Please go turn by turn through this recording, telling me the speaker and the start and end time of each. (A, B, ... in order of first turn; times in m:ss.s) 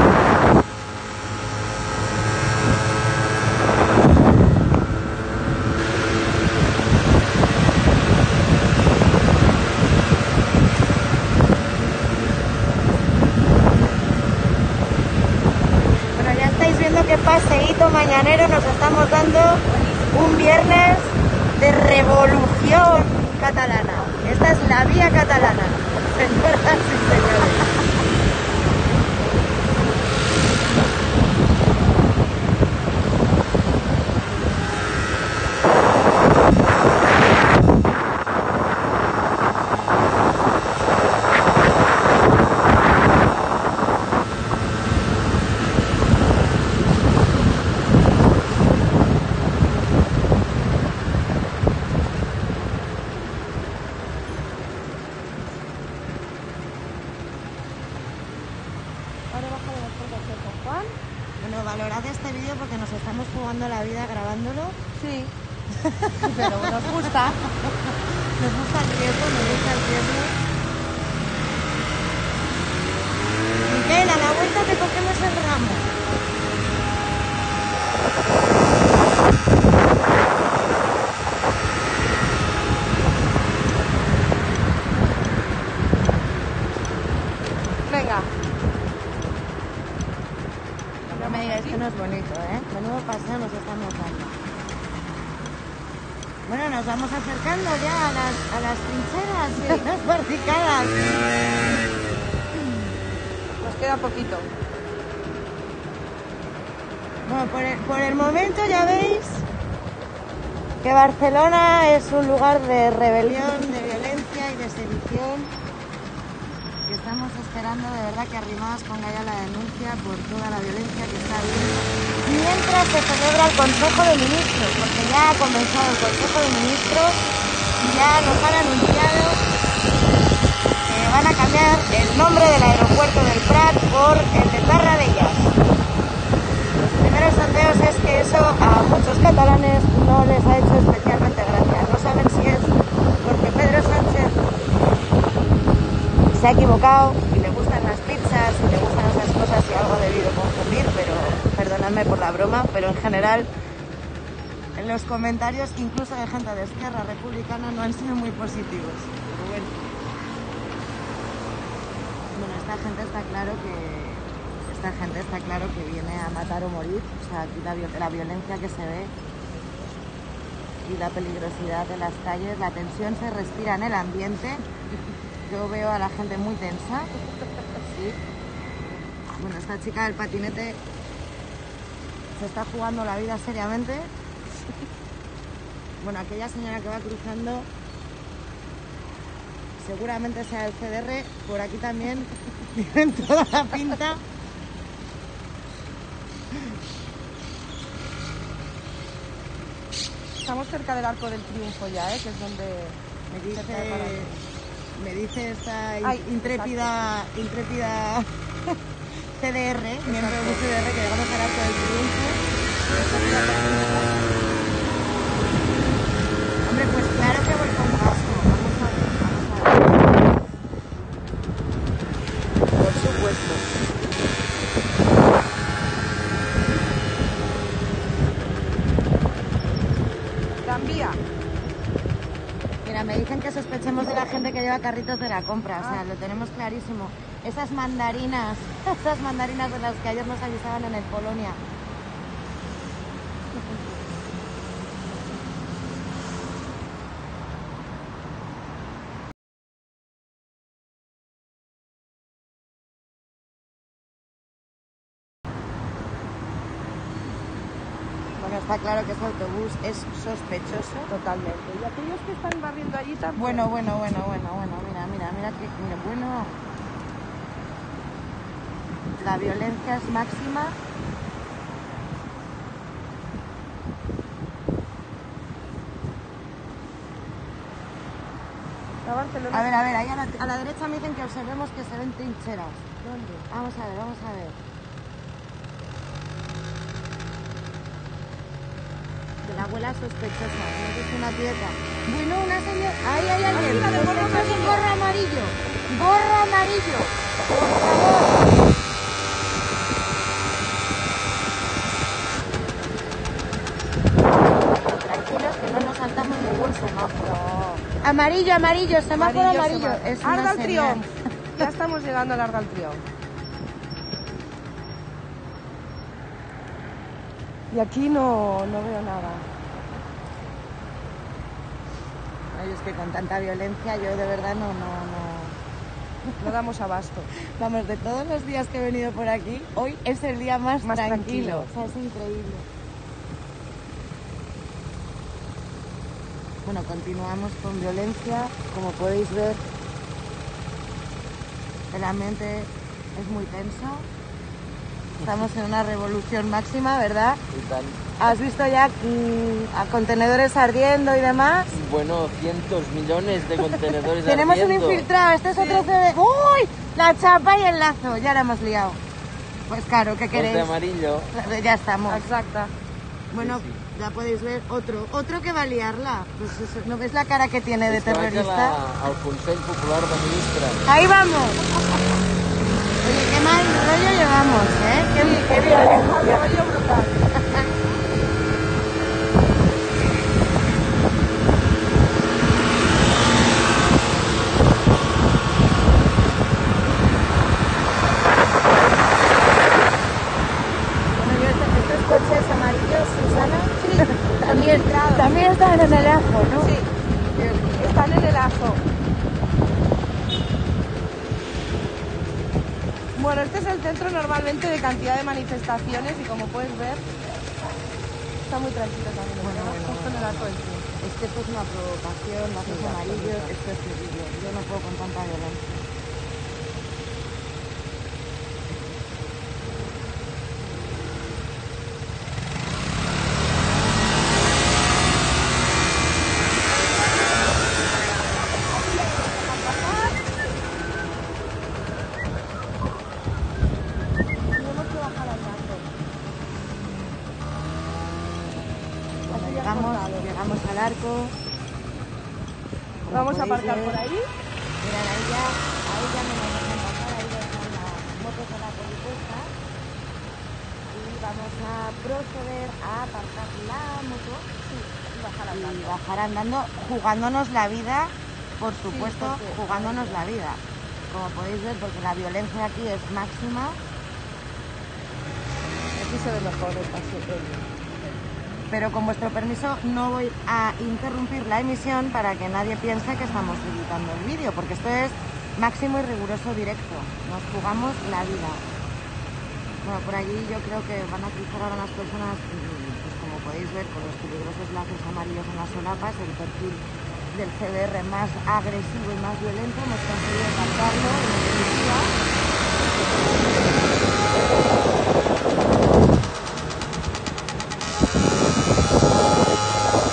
0:16.2-0:27.9 A
0:59.3-1:01.0 B
1:01.4-1:04.8 A
1:05.0-1:05.3 B
1:05.8-1:10.4 A
1:06.2-1:07.4 B
1:13.7-1:15.9 A
1:27.9-1:28.3 B
1:31.1-1:31.9 B
1:31.1-1:34.4 A
1:36.5-1:41.0 A
1:39.6-1:39.8 B
1:43.6-1:44.5 B
1:47.3-1:49.5 A
1:50.8-1:55.5 A
1:56.9-2:07.2 A
2:07.8-2:09.4 A
2:10.8-2:15.5 A
2:16.8-2:24.4 A
2:26.3-2:33.5 A
2:34.8-2:39.8 A
2:42.3-2:49.1 A
2:50.8-2:54.7 A
2:55.5-2:57.1 A
2:57.8-2:58.2 A
2:59.3-3:00.8 A
3:02.3-3:04.1 A
3:06.0-3:07.7 A
3:09.8-3:14.2 A
3:20.4-3:23.0 B
3:23.3-3:24.3 A
3:23.5-3:24.4 B
3:25.0-3:28.3 A
3:26.0-3:27.1 B
3:29.3-3:32.4 A
3:30.0-3:30.6 B
3:33.0-3:34.1 B
3:36.7-3:40.2 A
3:42.7-3:43.7 A
3:50.6-3:51.2 B
3:52.8-4:01.6 A
4:18.4-4:21.1 A
4:21.1-4:23.7 B
4:23.4-4:26.5 A
4:29.2-4:30.8 A
4:39.0-4:39.9 B
4:39.5-4:42.9 A
4:43.0-4:43.5 B
4:43.5-4:44.6 A
4:49.4-4:58.5 A
4:53.5-4:54.8 B
5:04.8-5:11.1 A
5:09.2-5:13.0 B
5:17.7-5:19.5 B
5:22.5-5:25.6 A
5:26.4-5:27.3 B
5:27.5-5:32.7 A
5:30.8-5:31.7 B
5:36.6-5:39.6 A
5:41.9-5:44.1 A
5:45.2-5:47.4 A
5:47.5-5:48.0 C
5:48.2-5:51.8 A
5:51.7-5:55.1 C
5:54.2-5:59.0 A
5:55.5-5:55.9 B
5:59.7-6:00.8 A
6:00.3-6:01.3 C
6:01.3-6:02.3 A
6:02.1-6:02.7 B
6:03.3-6:08.8 A
6:03.3-6:03.8 C
6:07.9-6:10.8 C
6:10.9-6:11.7 A
6:13.0-6:16.4 A
6:15.2-6:17.2 B
6:31.2-6:36.7 A
6:33.7-6:35.3 B
6:36.6-6:36.9 B
6:37.3-6:38.0 A
6:37.8-6:38.8 B
6:43.2-6:47.0 B
6:48.4-6:50.9 B
6:49.4-6:55.8 A
6:52.7-6:53.5 B
7:08.9-7:10.2 B
7:14.5-7:15.9 B
7:19.3-7:21.3 A
7:19.3-7:20.3 B
7:23.0-7:24.0 A
7:23.1-7:24.3 B
7:24.8-7:29.5 A
7:30.9-7:34.5 A
7:34.6-7:36.0 B
7:35.5-7:43.8 A
7:38.8-7:40.2 B
7:45.9-7:47.7 B
7:48.7-7:58.6 A
7:59.8-8:12.1 A